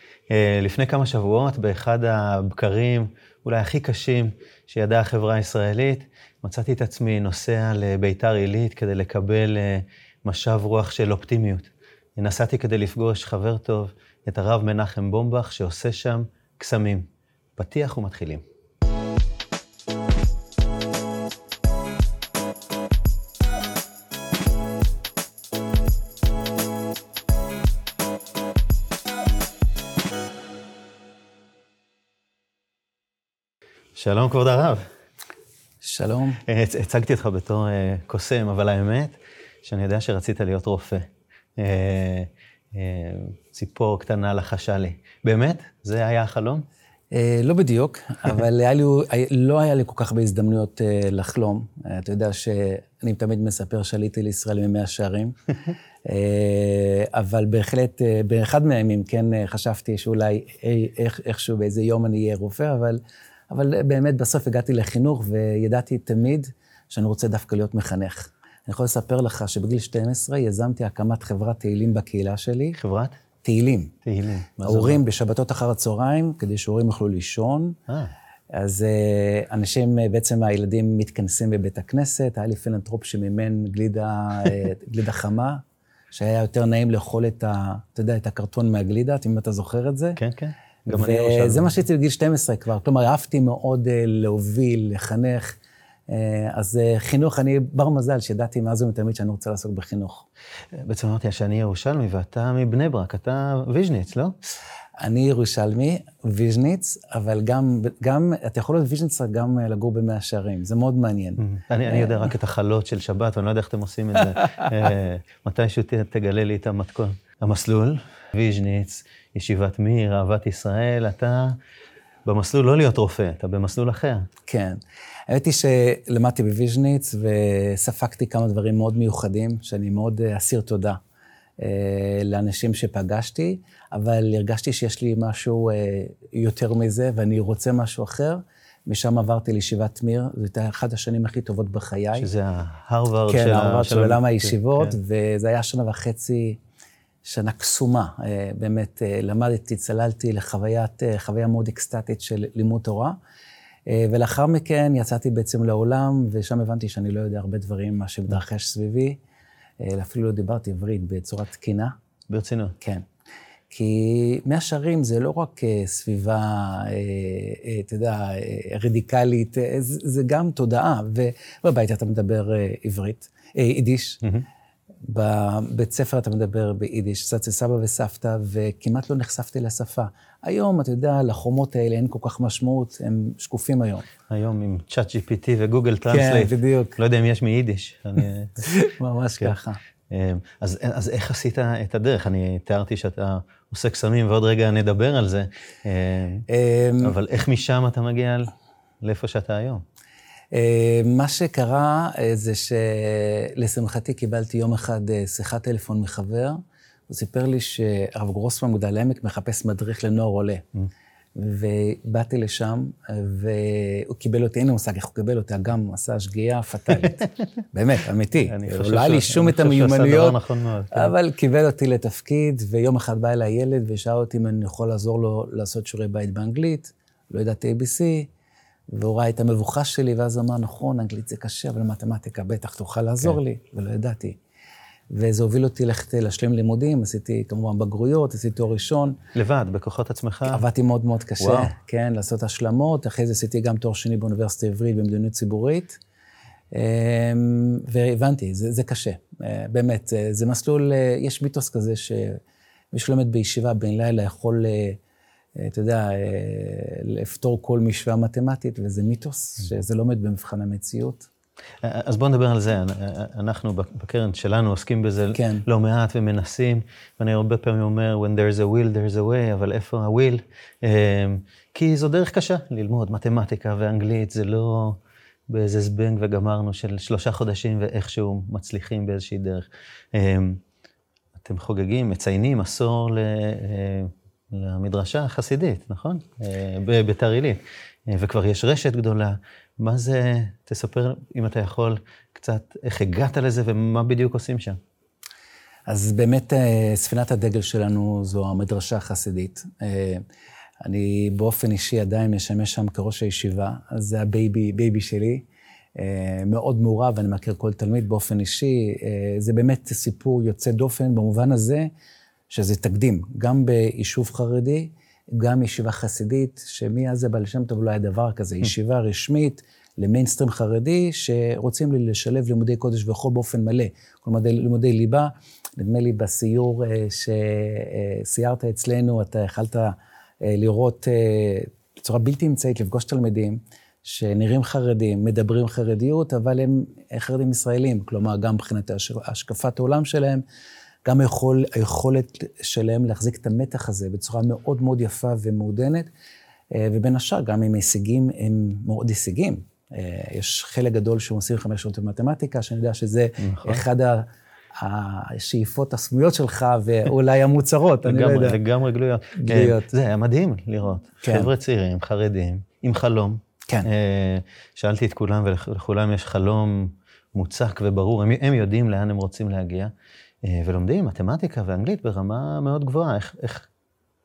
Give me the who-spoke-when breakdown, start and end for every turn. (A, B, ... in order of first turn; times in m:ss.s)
0:00.3-0:18.4 A
0:34.0-0:34.8 A
0:35.8-0:36.4 B
0:36.4-0:46.6 A
0:47.1-0:55.4 B
0:56.0-1:12.8 B
1:12.8-1:13.2 A
1:13.4-1:13.9 B
1:14.0-1:15.0 A
1:14.6-1:17.8 B
1:18.5-1:25.6 B
1:26.1-1:30.2 B
1:30.2-1:31.8 A
1:30.9-1:40.2 B
1:40.8-1:44.3 A
1:45.0-1:52.3 B
1:51.4-2:01.6 A
2:02.2-2:04.3 A
2:04.5-2:11.0 B
2:11.6-2:22.3 B
2:22.2-2:25.0 A
2:23.3-2:26.6 B
2:27.2-2:33.2 B
2:33.9-2:39.2 B
2:39.8-2:41.9 B
2:42.3-2:42.8 A
2:43.7-2:54.2 B
2:55.1-3:04.0 B
3:04.3-3:08.7 A
3:06.1-3:07.0 B
3:08.6-3:09.8 B
3:10.1-3:16.4 A
3:16.5-3:17.2 B
3:17.0-3:18.5 A
3:19.0-3:19.8 A
3:20.5-3:30.6 B
3:31.4-3:40.4 B
3:38.5-3:41.1 A
3:40.9-3:48.3 B
3:48.9-3:54.4 B
3:55.1-3:59.2 B
3:59.4-4:00.6 A
4:00.5-4:06.0 B
4:01.4-4:01.7 A
4:06.7-4:12.4 B
4:12.9-4:15.0 B
4:15.6-4:21.3 B
4:21.8-4:35.0 A
4:25.3-4:25.6 B
4:35.5-4:40.6 A
4:41.4-4:54.8 A
4:55.9-5:00.2 B
5:00.8-5:11.9 B
5:12.5-5:40.4 B
5:41.0-5:46.1 B
5:46.7-5:54.3 B
5:53.4-5:53.8 A
5:54.8-5:58.6 B
5:58.0-6:09.9 A
5:59.4-5:59.9 B
6:01.2-6:01.5 B
6:10.4-6:13.7 A